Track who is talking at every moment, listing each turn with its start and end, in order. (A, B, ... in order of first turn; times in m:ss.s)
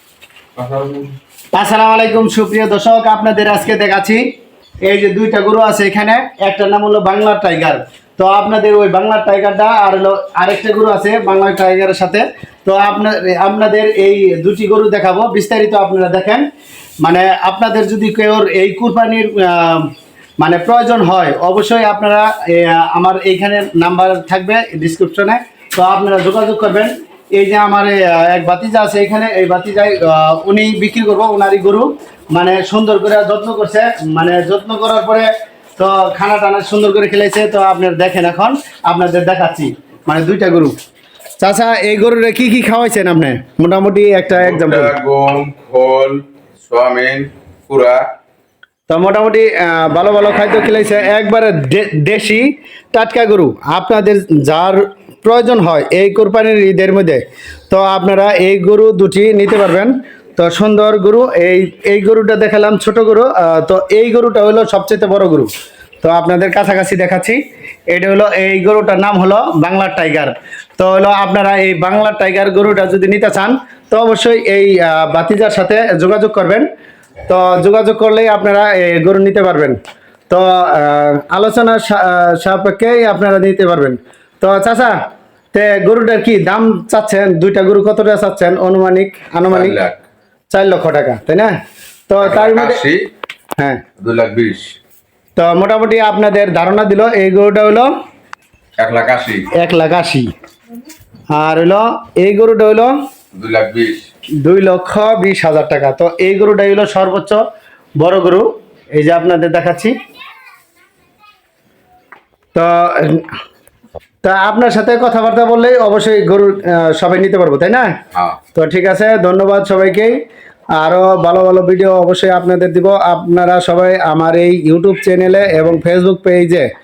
0:00.6-0:01.1 A
0:01.5-0:04.2 B
0:04.8-0:16.5 B
0:17.0-0:40.7 B
0:41.4-0:45.0 B
0:44.3-0:48.0 A
0:48.9-1:05.5 B
1:06.0-1:16.7 B
1:17.3-1:19.8 B
1:20.3-1:25.0 B
1:25.5-1:29.8 B
1:29.5-1:30.0 A
1:30.5-1:31.5 B
1:32.1-1:32.8 B
1:32.2-1:33.0 A
1:34.0-1:34.7 A
1:35.4-1:37.9 B
1:38.8-1:39.5 A
1:39.5-1:40.3 B
1:41.3-1:42.9 B
1:43.4-1:44.1 A
1:44.4-1:47.4 B
1:48.0-1:50.0 B
1:52.6-1:53.4 B
1:54.2-1:57.9 B
1:58.6-2:00.2 B
2:00.8-2:06.7 B